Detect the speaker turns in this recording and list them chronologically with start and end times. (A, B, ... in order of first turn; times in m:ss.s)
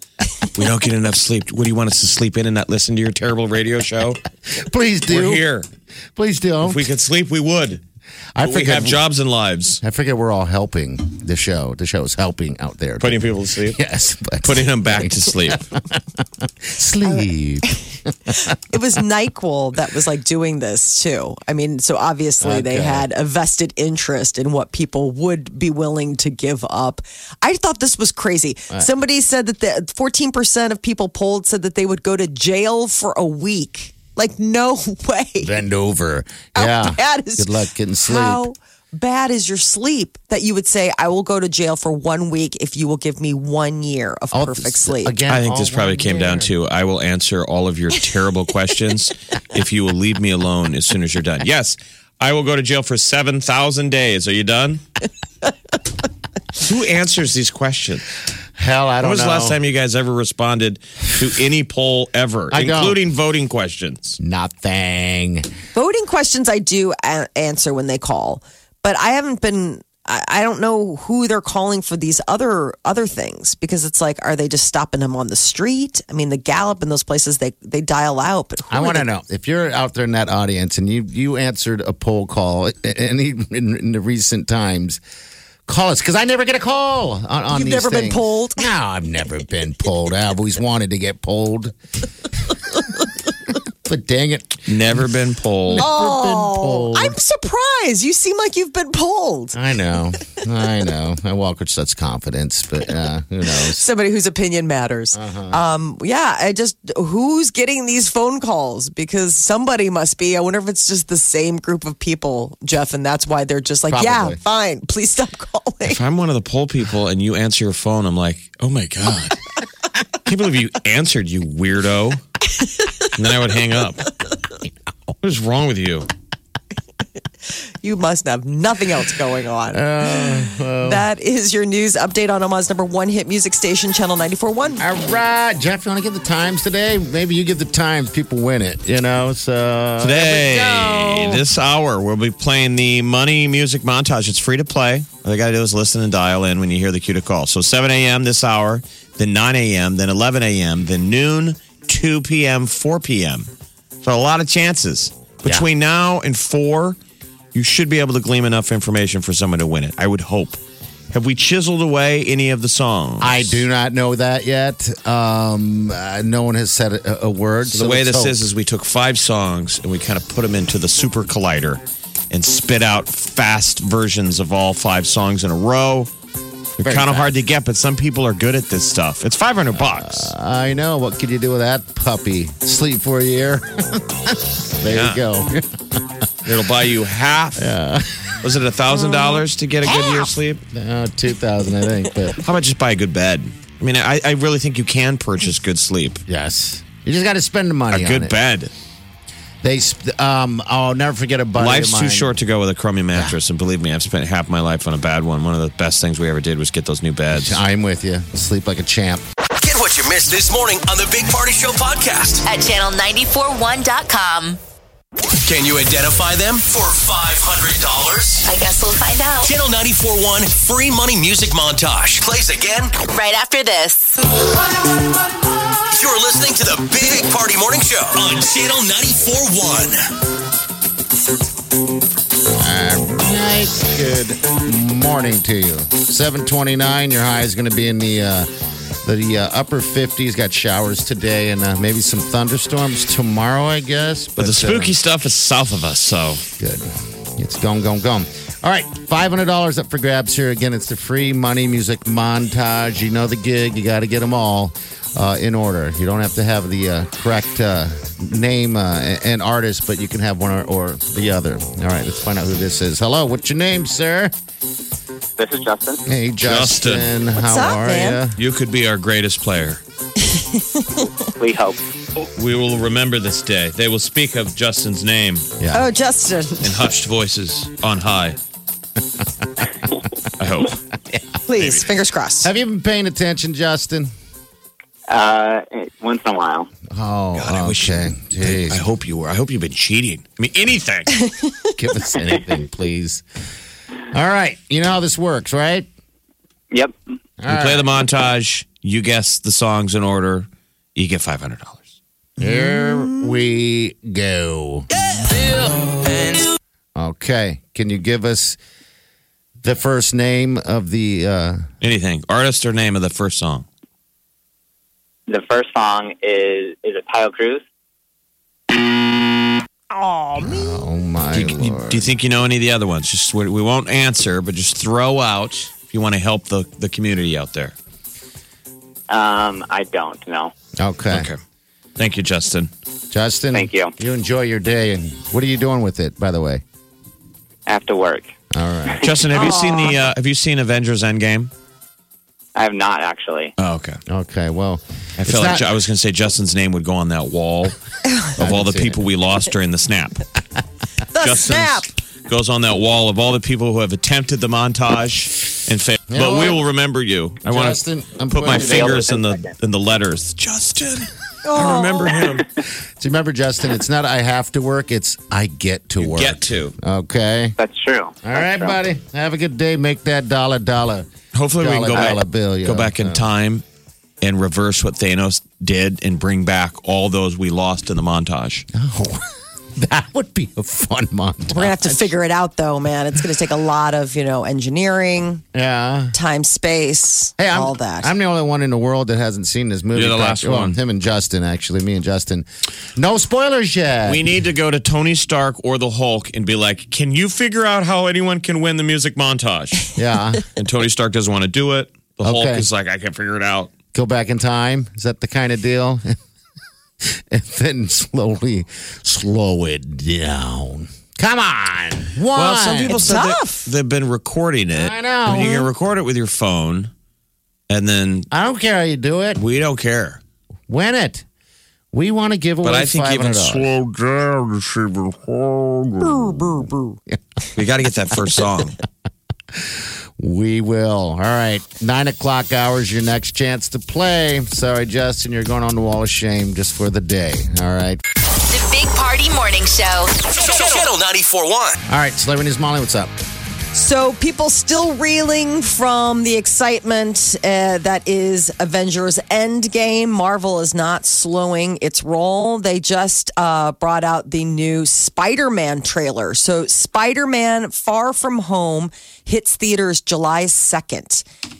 0:00.4-0:04.2 A
0:04.5-0:05.4 B
0:05.1-0:05.7 A
0:06.2-0:06.9 B
0:06.6-0:07.8 A
0:08.4-0:09.0 B
0:08.4-0:09.8 A
0:09.8-0:18.5 B
0:13.0-0:13.8 A
0:14.4-0:15.7 A
0:17.0-0:17.8 C
0:18.3-0:35.6 C
0:22.4-0:23.1 B
0:35.4-0:38.4 B
0:36.5-0:37.5 C
0:38.0-0:45.2 C
0:44.3-0:46.5 B
0:45.3-0:54.8 A
0:56.6-0:58.1 A
0:58.6-0:59.6 B
0:59.0-1:04.2 A
1:02.5-1:03.0 B
1:04.2-1:05.5 B
1:05.7-1:19.0 C
1:18.7-1:25.0 B
1:25.7-1:31.7 B
1:27.5-1:28.7 C
1:33.8-1:35.1 B
1:34.6-1:35.9 A
1:35.7-1:37.2 B
1:35.8-1:39.6 C
1:39.5-1:43.8 B
1:43.5-1:56.0 C
1:45.1-1:45.6 B
1:53.9-1:54.4 B
1:55.8-1:59.4 A
2:00.2-2:02.2 A
2:03.0-2:04.1 A
2:05.2-2:06.1 A
2:07.8-2:14.8 C
2:09.7-2:11.0 B
2:14.8-2:21.4 B
2:20.0-2:33.5 A
2:34.0-2:37.0 A
2:37.5-2:40.6 A
2:41.1-2:43.6 A
2:43.2-2:48.4 B
2:47.7-2:56.1 A
2:56.8-3:00.3 A
2:56.8-2:57.4 B
2:59.8-3:06.3 B
3:04.9-3:05.2 A
3:06.4-3:07.7 A
3:07.6-3:08.3 B
3:08.4-3:10.6 A
3:10.7-3:12.4 B
3:12.4-3:16.2 A
3:16.3-3:18.3 B
3:17.9-3:18.7 A
3:19.6-3:22.3 B
3:21.6-3:27.6 A
3:27.3-3:29.2 B
3:29.5-3:32.4 D
3:32.4-3:34.6 E
3:35.4-3:38.5 D
3:38.4-3:39.5 E
3:39.4-3:42.9 D
3:43.0-3:44.2 E
3:45.9-3:50.0 D
3:52.5-3:58.5 B
3:59.0-4:04.9 B
4:04.4-4:06.4 A
4:06.6-4:24.3 B
4:25.4-4:26.0 F
4:26.0-4:28.4 B
4:26.4-4:27.1 A
4:27.4-4:28.2 C
4:28.4-4:29.8 A
4:30.2-4:31.1 C
4:31.4-4:31.8 F
4:32.4-4:35.5 A
4:35.6-4:35.9 B
4:35.7-4:36.8 C
4:36.6-4:38.4 A
4:40.4-4:40.8 A
4:41.5-4:42.5 C
4:42.4-4:44.1 B
4:45.1-4:46.7 F
4:46.9-4:48.8 B
4:47.3-4:51.2 A
4:51.2-4:51.7 C
4:51.8-4:53.2 B
4:54.1-4:55.9 B
4:56.7-4:57.0 F
4:57.4-4:57.9 B
4:57.5-5:01.9 A
5:02.4-5:04.9 B
5:07.0-5:08.6 B
5:09.6-5:11.6 B
5:11.8-5:13.6 A
5:15.3-5:17.6 F
5:19.9-5:20.5 C
5:20.4-5:22.1 B
5:21.3-5:27.7 A
5:29.1-5:30.5 F
5:30.8-5:31.3 B
5:31.1-5:31.4 A
5:32.0-5:32.7 A
5:33.1-5:36.6 B
5:33.5-5:33.9 F
5:37.7-5:38.3 F
5:38.5-5:39.1 B
5:39.0-5:41.5 A
5:39.3-5:40.0 C
5:42.5-5:43.5 F
5:43.6-5:44.0 A
5:44.1-5:45.7 B
5:45.2-5:47.8 A
5:48.4-5:50.2 A
5:48.4-5:49.0 B
5:51.1-5:51.9 C
5:51.2-6:02.5 A
5:56.1-5:56.6 B
5:57.4-5:59.1 B
5:58.4-5:59.5 F
6:01.4-6:02.2 C
6:03.0-6:07.6 B
6:06.0-6:06.7 A
6:07.6-6:08.8 F
6:08.2-6:13.3 B
6:11.3-6:13.6 A
6:14.2-6:18.6 A
6:18.7-6:22.1 B
6:21.5-6:25.4 C
6:25.5-6:26.1 B
6:26.1-6:28.1 C
6:27.4-6:34.3 B
6:29.9-6:30.8 A
6:34.0-6:39.9 A
6:40.0-6:40.4 B
6:40.5-6:43.7 A
6:42.2-6:42.7 B
6:43.9-6:46.2 B
6:47.0-6:53.2 B
6:52.3-6:56.9 A
6:52.9-6:53.7 C
6:54.7-6:55.7 B
6:57.7-6:58.3 A
6:58.3-6:59.4 B
6:59.4-7:00.2 A
7:00.7-7:01.2 B
7:01.9-7:03.7 B
7:02.6-7:06.3 A
7:06.0-7:07.0 C
7:07.6-7:08.8 A
7:09.5-7:18.0 B
7:18.4-7:20.3 E
7:20.3-7:21.8 D
7:21.9-7:23.1 B
7:23.7-7:41.2 C